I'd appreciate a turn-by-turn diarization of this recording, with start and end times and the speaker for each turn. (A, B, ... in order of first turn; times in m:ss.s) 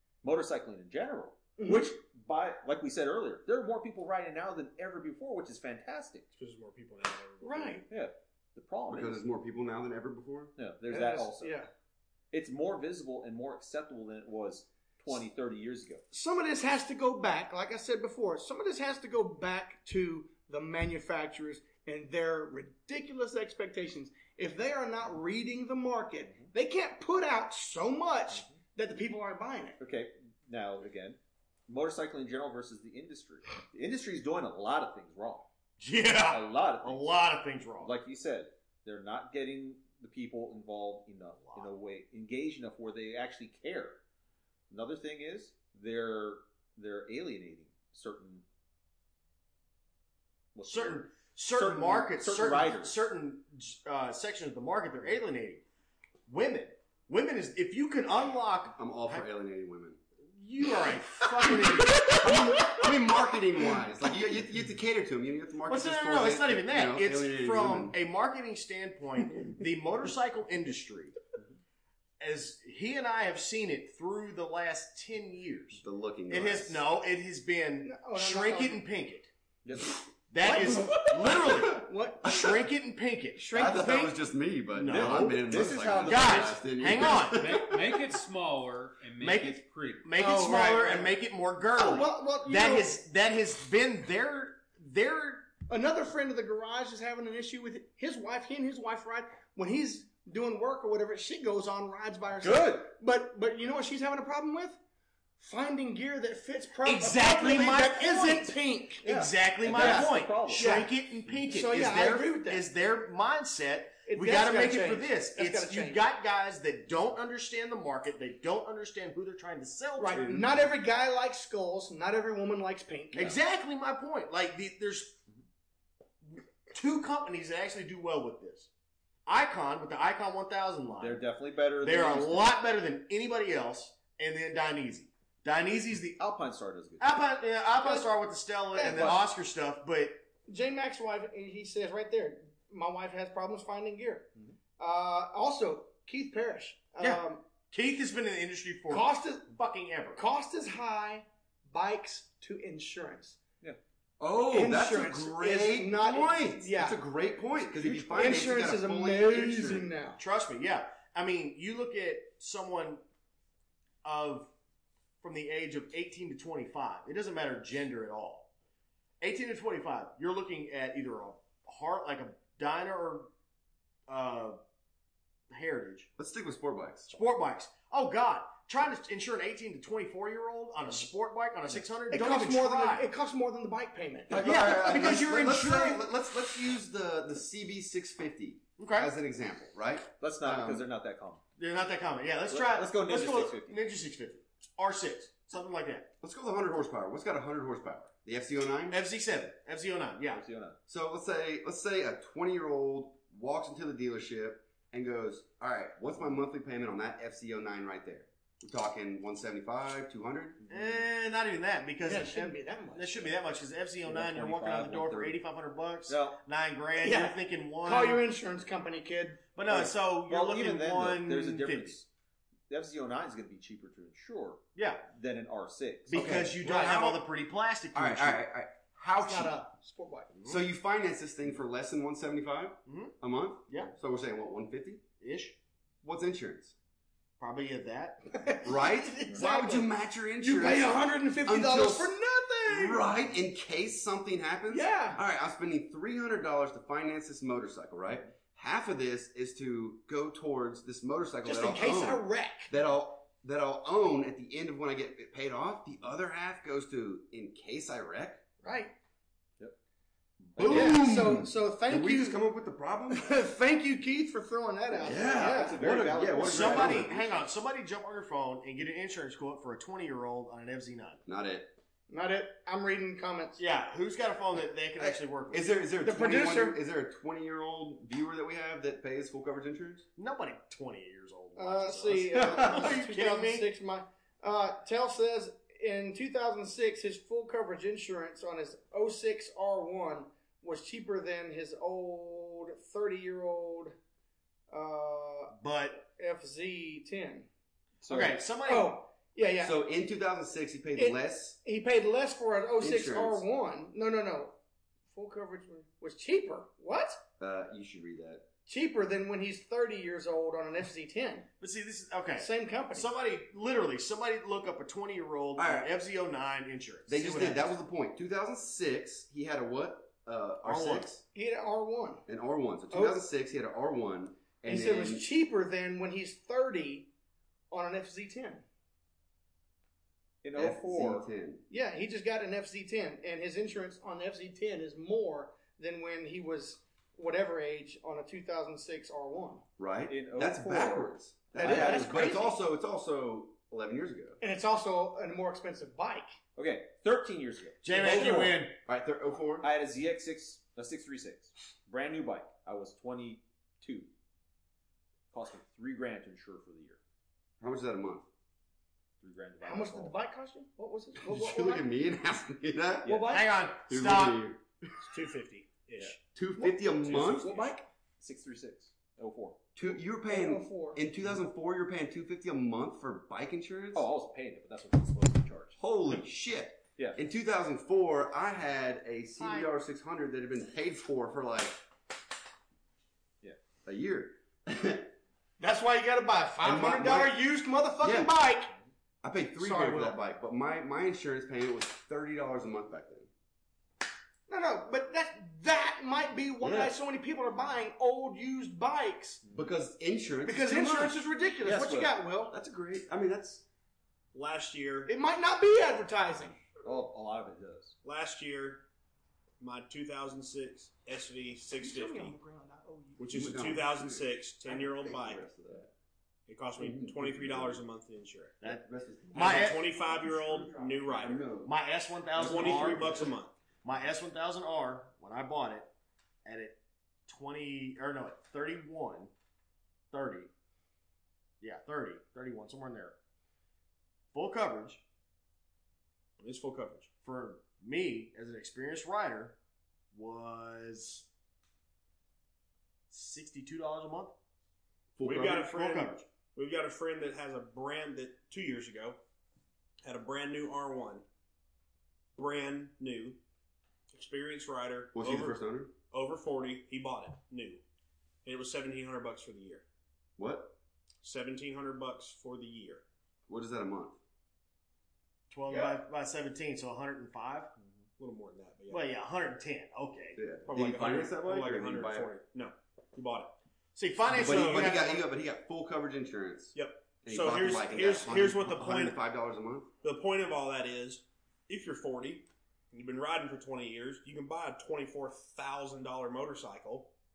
0:00.2-0:06.2 A
0:01.6-0:01.9 B
0:06.3-0:07.8 C
0:07.4-0:07.8 B
0:07.9-0:09.2 A
0:08.9-0:10.5 D
0:10.6-0:11.5 A
0:10.9-0:11.7 B
0:12.3-0:16.0 A
0:16.1-0:29.8 B
0:28.3-0:28.6 A
0:29.8-0:35.5 A
0:35.8-0:37.9 E
0:36.2-0:37.1 A
0:37.8-0:44.0 A
0:41.4-0:41.7 E
0:44.7-0:48.4 A
0:50.5-0:53.0 A
0:50.7-0:55.6 E
0:56.3-0:59.2 E
0:58.7-1:00.0 D
1:00.3-1:02.9 E
1:01.9-1:08.0 D
1:05.7-1:11.2 E
1:12.2-1:19.3 E
1:15.8-1:16.8 D
1:17.8-1:18.8 B
1:19.6-1:20.0 A
1:20.3-1:23.7 E
1:20.4-1:22.4 B
1:23.4-1:24.1 B
1:23.5-1:27.9 D
1:24.7-1:27.7 E
1:24.9-1:26.7 A
1:27.2-1:30.1 F
1:29.2-1:35.6 E
1:30.2-1:31.2 B
1:31.8-1:33.0 B
1:35.6-1:44.8 B
1:42.4-1:42.9 A
1:45.4-1:49.0 B
1:46.8-2:00.4 E
1:49.0-1:50.7 A
1:49.8-1:50.9 B
1:51.5-1:52.6 B
1:54.0-1:56.0 B
2:00.0-2:03.4 B
2:03.1-2:05.2 E
2:06.3-2:08.7 E
2:09.2-2:11.3 E
2:11.0-2:12.5 A
2:11.8-2:16.2 E
2:16.2-2:17.0 A
2:17.0-2:20.3 E
2:17.8-2:18.1 B
2:18.7-2:19.2 B
2:18.8-2:19.2 A
2:20.4-2:27.5 B
2:27.0-2:30.2 E
2:28.9-2:29.5 B
2:30.2-2:33.4 B
2:34.2-2:39.9 D
2:34.5-2:37.0 B
2:37.7-2:38.4 A
2:38.1-2:40.2 B
2:40.2-2:43.0 E
2:44.0-2:44.5 E
2:45.2-2:48.5 E
2:49.2-2:53.3 E
2:54.1-2:54.6 E
2:55.5-2:56.1 E
2:56.2-2:57.1 D
2:57.1-3:03.1 E
3:02.1-3:05.3 B
3:04.3-3:10.8 D
3:04.4-3:06.0 E
3:08.8-3:09.1 E
3:10.2-3:11.4 A
3:11.6-3:16.1 E
3:12.5-3:13.8 A
3:16.2-3:19.0 D
3:18.9-3:20.4 E
3:20.3-3:20.8 A
3:20.9-3:30.6 D
3:30.7-3:38.2 E
3:32.0-3:33.4 B
3:34.0-3:35.4 A
3:36.1-3:36.4 A
3:37.0-3:39.5 B
3:39.5-3:42.0 E
3:39.7-3:42.1 A
3:42.7-3:46.3 A
3:44.7-3:45.0 E
3:46.1-3:48.4 E
3:46.1-3:47.1 D
3:46.6-3:47.2 B
3:47.9-3:49.5 D
3:49.2-3:50.3 B
3:50.4-3:55.0 D
3:52.9-3:53.1 E
3:55.2-3:55.6 E
3:56.0-3:56.7 D
3:57.4-3:58.3 E
3:58.3-3:59.9 B
3:58.6-4:02.1 D
4:00.4-4:03.0 B
4:02.6-4:18.4 D
4:04.7-4:05.2 B
4:11.4-4:12.7 B
4:18.6-4:18.9 B
4:20.4-4:21.0 A
4:20.6-4:23.4 D
4:20.6-4:21.0 E
4:20.6-4:22.4 B
4:23.1-4:25.8 B
4:25.0-4:27.4 D
4:25.0-4:27.1 A
4:26.4-4:31.2 E
4:31.2-4:31.8 D
4:32.1-4:33.6 B
4:33.6-4:35.7 E
4:35.0-4:40.1 D
4:36.0-4:36.8 B
4:40.2-4:43.7 E
4:41.6-4:54.0 B
4:54.7-4:57.5 B
4:55.5-4:56.0 E
4:58.0-4:58.4 A
4:58.1-4:59.0 E
4:58.6-4:59.8 B
4:59.6-5:01.6 D
5:01.0-5:04.6 B
5:02.8-5:03.4 D
5:05.1-5:07.2 B
5:07.4-5:08.5 D
5:08.7-5:11.5 B
5:11.6-5:17.7 E
5:12.4-5:13.1 B
5:15.6-5:15.9 D
5:17.1-5:21.2 D
5:20.6-5:21.1 E
5:21.3-5:22.2 B
5:22.2-5:25.3 D
5:22.9-5:23.2 B
5:24.6-5:27.1 B
5:27.7-5:28.6 B
5:30.4-5:31.3 A
5:30.5-5:31.6 D
5:31.7-5:39.6 B
5:39.8-5:44.4 D
5:40.1-5:42.4 A
5:41.6-5:42.6 B
5:44.4-5:46.4 B
5:46.6-5:48.6 A
5:47.8-5:48.8 E
5:48.0-5:48.6 B
5:48.8-5:49.7 D
5:49.6-5:54.1 A
5:55.3-5:57.0 A
5:57.6-5:58.2 D
5:59.2-6:00.1 A
5:59.6-6:01.9 B
6:01.2-6:03.2 D
6:03.0-6:03.3 A
6:03.0-6:03.5 B
6:03.3-6:04.4 E
6:03.9-6:04.6 D
6:05.0-6:06.2 C
6:06.3-6:07.5 D
6:06.6-6:07.8 B
6:07.1-6:07.6 A
6:08.2-6:09.6 A
6:09.8-6:14.1 D
6:10.2-6:11.0 B
6:13.9-6:15.8 A
6:15.8-6:21.8 D
6:19.4-6:19.7 B
6:23.8-6:25.1 D
6:25.6-6:28.7 B
6:26.6-6:27.4 D
6:28.0-6:28.3 D
6:29.2-6:33.3 D
6:29.6-6:30.2 B
6:34.5-6:39.4 B
6:36.6-6:36.9 D
6:39.4-6:39.7 A
6:39.5-6:41.2 D
6:40.4-6:42.5 B
6:41.6-6:42.1 A
6:42.5-6:43.6 D
6:44.3-6:45.1 C
6:45.0-6:46.6 B
6:46.8-6:48.0 A
6:48.0-6:48.8 C
6:49.6-6:52.4 C
6:51.8-6:53.4 B
6:53.2-6:55.4 C
6:53.3-6:55.9 D
6:56.5-6:58.7 C
6:56.8-6:57.8 D
6:58.6-7:01.7 D
6:59.3-7:01.6 C
6:59.3-6:59.8 E
7:01.6-7:03.3 E
7:02.3-7:03.5 C
7:02.4-7:03.3 D
7:03.8-7:05.9 E
7:06.4-7:09.3 E
7:10.1-7:10.5 E
7:11.6-7:13.2 E
7:14.3-7:15.0 E
7:16.4-7:17.1 C
7:17.2-7:19.6 E
7:20.1-7:21.3 E
7:23.1-7:24.3 E
7:25.2-7:25.5 D
7:25.2-7:29.2 C
7:25.2-7:26.2 E
7:30.0-7:31.2 C
7:32.3-7:33.4 C
7:34.1-7:37.8 C
7:35.1-7:35.9 D
7:38.4-7:39.8 C
7:40.4-7:40.7 D
7:41.2-7:43.0 C
7:43.5-7:44.2 D
7:45.5-7:47.7 E
7:48.2-7:49.0 C
7:48.9-7:50.4 E
7:50.4-7:52.3 D
7:50.6-7:53.5 C
7:53.9-7:55.2 E
7:54.3-7:54.9 C
7:54.3-7:59.9 D
7:56.7-7:59.2 C
8:00.0-8:07.1 C